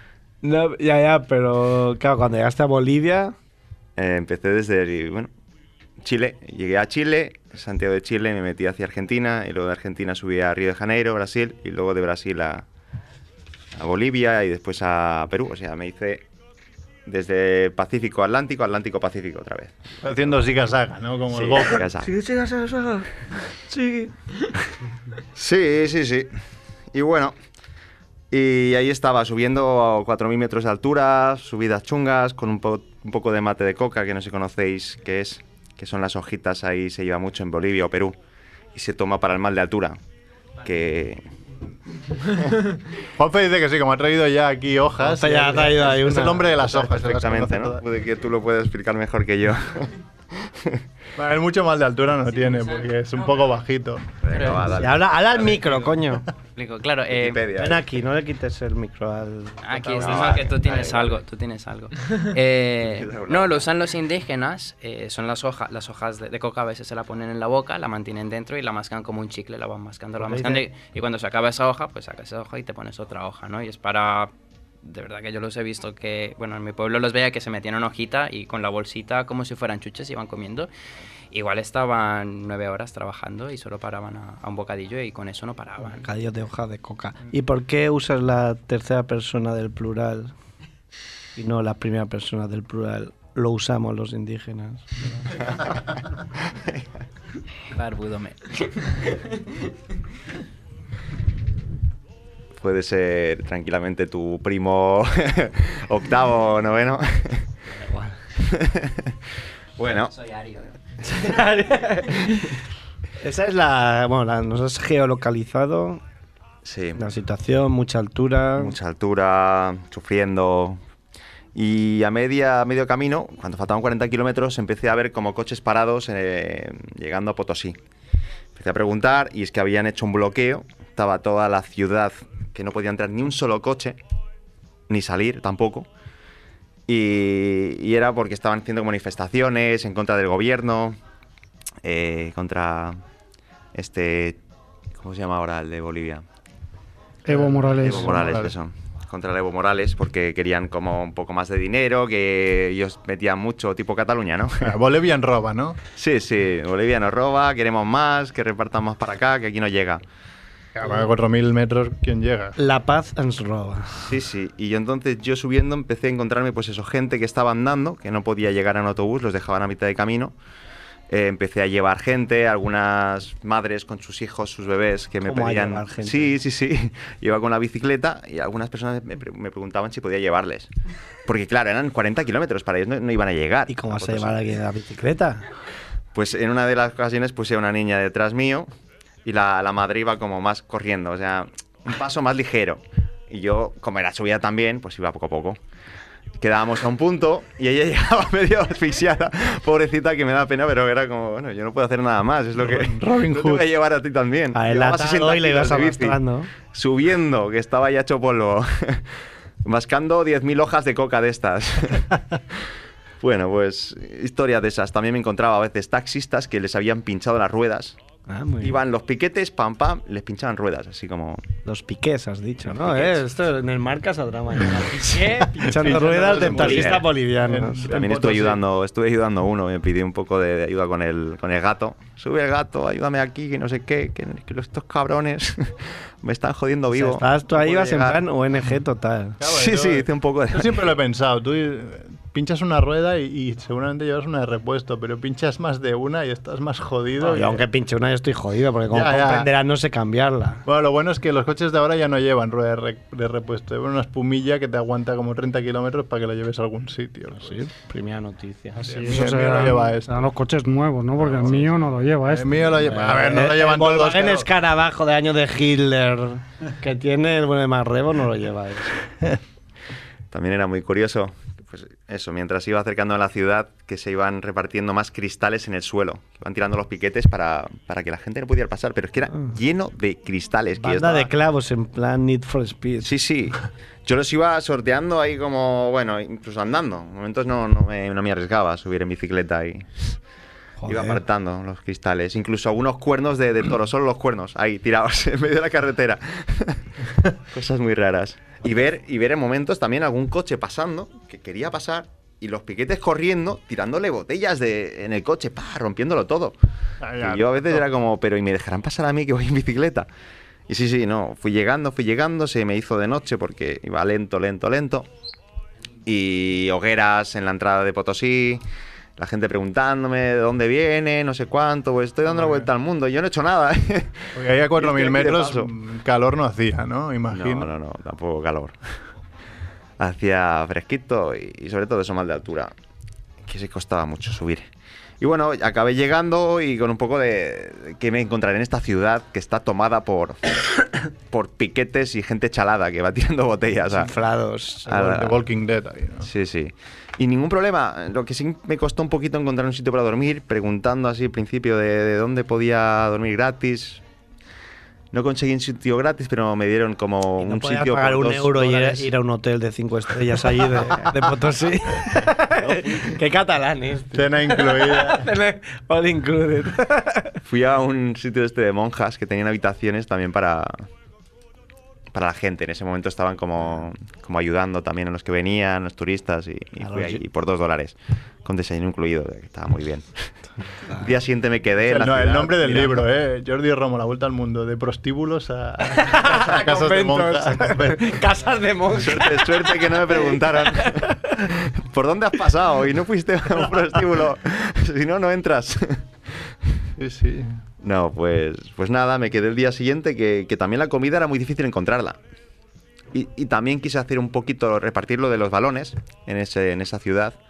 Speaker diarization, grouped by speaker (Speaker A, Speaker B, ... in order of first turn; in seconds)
Speaker A: 0.4-3.3, 22.0-24.1, 45.0-46.5, 54.7-56.3, 57.5-60.4, 70.2-70.7, 85.8-90.3, 91.4-95.0, 107.7-108.2, 111.1-112.4, 113.2-116.0, 117.0-118.8, 162.6-164.1, 175.2-176.3, 183.7-185.4, 204.5-206.5, 218.3-218.8, 221.7-227.9, 236.9-239.4, 247.2-250.6, 257.4-259.3, 262.9-269.0, 280.8-283.1, 290.8-291.2, 343.9-344.9, 357.4-367.4, 376.8-377.2, 385.9-391.1
Speaker B: 4.0-5.3, 6.0-12.6, 13.8-16.2, 17.1-20.3, 21.3-22.1, 25.4-26.3, 26.9-27.4, 28.3-38.2, 38.7-40.0, 40.6-41.2, 46.6-50.8, 54.2-55.8, 57.1-57.9, 59.8-61.2, 62.8-63.7, 95.5-95.8, 96.5-96.8, 102.6-107.5, 108.4-109.2, 109.8-110.2, 116.7-117.0, 118.6-120.8, 121.5-127.8, 128.6-134.0, 134.9-135.9, 136.9-141.0, 141.8-143.0, 143.7-144.4, 145.0-146.2, 147.8-154.7, 156.0-160.0, 164.1-170.3, 171.1-180.7, 181.3-184.4, 186.2-188.7, 189.2-195.6, 196.4-212.7, 213.2-218.0, 218.6-221.4, 222.7-223.2, 225.9-227.1, 227.8-238.2, 239.4-240.9, 270.3-281.3, 283.0-290.2, 290.9-296.9, 297.5-306.6, 307.2-310.1, 310.7-315.1, 316.1-318.6, 319.2-325.7, 327.3-328.8, 330.0-332.7, 333.4-334.7, 335.2-340.4, 341.3-344.1, 344.9-345.4, 346.2-354.0, 355.1-359.1, 367.4-370.8, 372.1-380.3, 380.9-383.1, 388.9-396.5, 397.8-402.2, 403.1-407.4
Speaker C: 20.0-21.9, 43.1-47.8, 51.2-54.2, 147.3-148.5, 154.6-155.8, 160.8-162.6, 202.6-203.7, 225.5-228.6, 239.4-247.6, 248.9-249.5, 250.7-257.6, 258.8-260.3, 261.2-261.7, 262.3-264.5, 307.0-307.9, 322.3-322.7, 324.3-327.7, 344.9-346.3, 364.1-365.3, 381.8-388.2, 397.0-397.6
Speaker D: 54.3-54.7, 56.5-57.4, 59.6-74.3, 74.8-80.7, 81.3-86.1, 97.7-98.4, 110.1-110.7
Speaker E: 147.3-148.2, 258.8-263.2